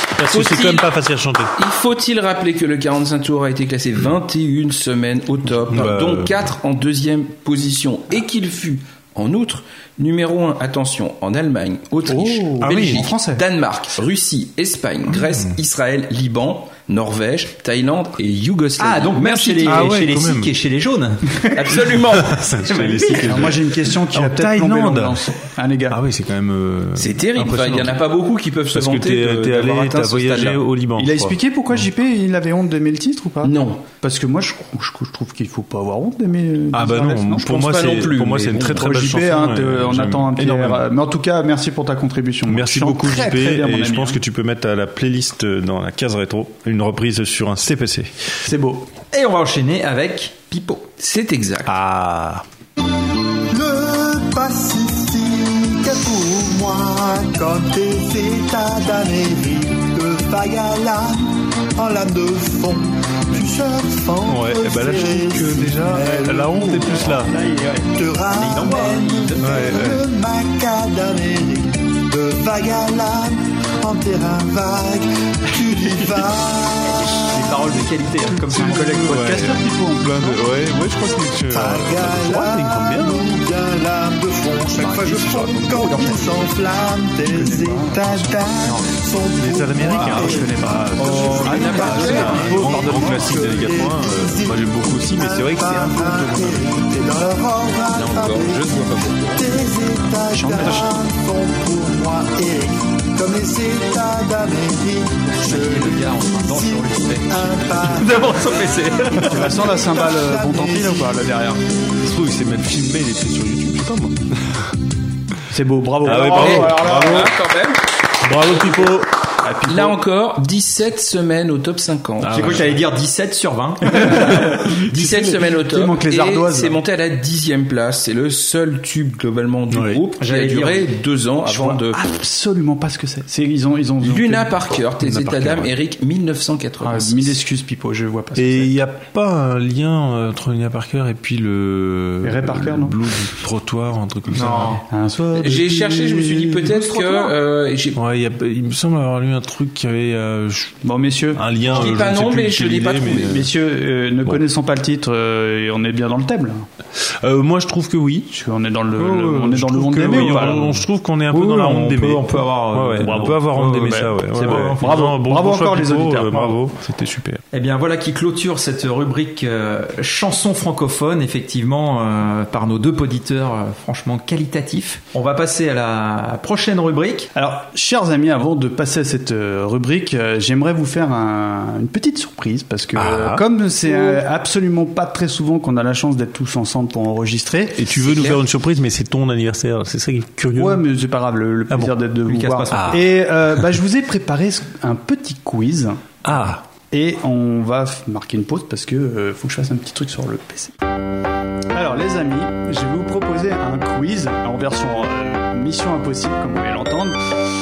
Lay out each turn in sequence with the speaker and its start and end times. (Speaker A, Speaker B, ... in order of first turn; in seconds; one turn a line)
Speaker A: 0.2-1.5
Speaker B: 0.3-0.9
Speaker B: 1.6-20.0
Speaker A: 5.7-6.5
Speaker C: 12.1-13.4
Speaker A: 12.6-13.1
Speaker A: 15.1-15.6
Speaker D: 18.8-21.9
Speaker A: 19.6-20.5
Speaker B: 21.5-22.4
Speaker A: 22.0-25.3
Speaker D: 22.7-23.5
Speaker C: 23.2-26.0
Speaker A: 25.9-28.1
Speaker B: 26.9-30.6
Speaker A: 28.7-31.9
Speaker C: 31.0-37.7
Speaker B: 33.4-33.8
Speaker A: 36.7-40.9
Speaker B: 37.5-39.0
Speaker C: 38.7-44.2
Speaker A: 42.5-48.1
Speaker C: 48.4-48.9
Speaker D: 49.1-50.9
Speaker B: 51.0-51.8
Speaker A: 51.7-52.4
Speaker E: 53.5-67.2
Speaker A: 64.3-67.3
Speaker C: 66.7-67.9
Speaker E: 67.9-77.0
Speaker D: 68.3-69.9
Speaker A: 69.4-70.0
Speaker D: 76.8-79.2
Speaker C: 78.3-80.4
Speaker A: 78.8-83.3
Speaker E: 81.5-108.7
Speaker A: 84.8-85.9
Speaker C: 85.6-86.4
Speaker C: 87.3-88.3
Speaker D: 88.4-88.9
Speaker A: 89.4-96.8
Speaker C: 89.8-93.7
Speaker D: 89.8-92.2
Speaker B: 91.0-92.7
Speaker B: 97.9-99.5
Speaker C: 100.4-100.9
Speaker D: 100.4-100.8
Speaker D: 105.3-109.5
Speaker C: 109.2-111.6
Speaker E: 109.3-111.2
Speaker A: 112.0-114.7
Speaker C: 115.5-117.3
Speaker A: 116.0-117.4
Speaker B: 116.1-117.8
Speaker A: 118.2-119.1
Speaker C: 119.4-120.0
Speaker B: 119.7-122.7
Speaker A: 122.2-122.8
Speaker D: 122.3-124.3
Speaker C: 124.0-126.8
Speaker B: 124.7-132.0
Speaker A: 129.7-130.0
Speaker D: 130.2-131.0
Speaker C: 131.5-134.5
Speaker B: 134.0-137.4
Speaker A: 135.0-135.7
Speaker C: 136.8-138.7
Speaker A: 138.3-144.8
Speaker C: 142.2-143.0
Speaker D: 144.3-144.8
Speaker C: 144.9-147.3
Speaker B: 145.3-148.0
Speaker A: 147.9-150.8
Speaker C: 150.8-151.9
Speaker A: 151.3-153.5
Speaker B: 151.7-153.3
Speaker C: 153.1-156.7
Speaker A: 157.0-158.3
Speaker C: 158.3-160.8
Speaker A: 159.0-167.4
Speaker D: 161.3-165.0
Speaker C: 163.0-166.7
Speaker D: 167.5-177.3
Speaker C: 177.4-187.9
Speaker A: 182.9-184.1
Speaker A: 187.8-190.9
Speaker C: 190.5-196.0
Speaker A: 191.7-192.0
Speaker D: 192.3-193.0
Speaker A: 192.7-193.8
Speaker A: 196.2-196.6
Speaker C: 196.9-200.7
Speaker C: 201.7-207.2